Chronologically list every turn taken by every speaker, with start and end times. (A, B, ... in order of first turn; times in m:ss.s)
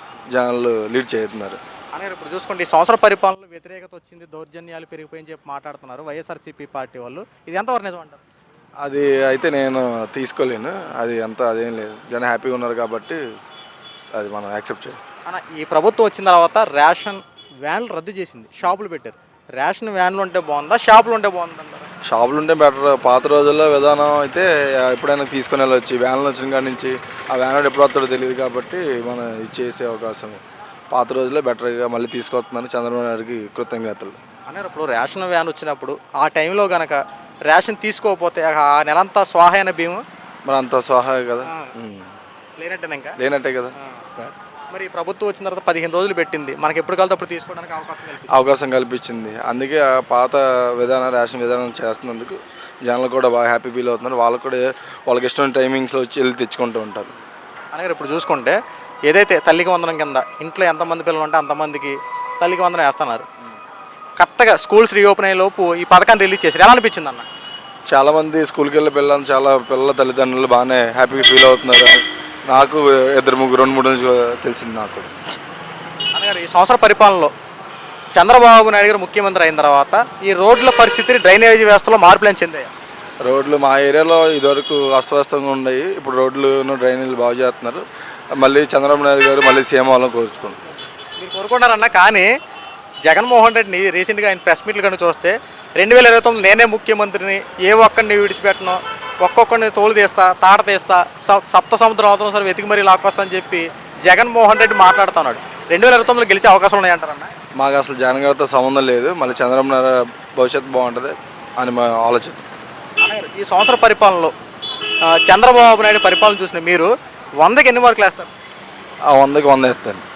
0:00.3-0:01.6 A
0:01.9-0:08.2 B
0:08.8-0:13.2 A
0:14.2-0:15.0 A
0:15.3-0:21.9 B
0:22.0-0:30.4 A
0:30.9-0:34.2 A
0:34.5-0:40.0 B
0:40.5-0:42.1 A
0:41.5-0:41.7 B
0:42.6-0:43.2 B
0:43.2-0:44.3 A
0:43.8-0:44.1 B
0:44.7-0:48.3 B
0:48.3-0:57.1 A
0:57.7-1:03.3 B
1:04.2-1:07.3 B
1:07.9-1:15.1 A
1:16.1-1:17.3 B
1:18.1-1:22.7 B
1:23.2-1:27.8 A
1:28.4-1:30.6 A
1:31.2-1:32.3 B
1:33.0-1:47.3 B
1:47.6-1:52.4 A
1:53.0-1:54.3 B
1:55.0-1:58.3 B
1:59.1-2:00.0 A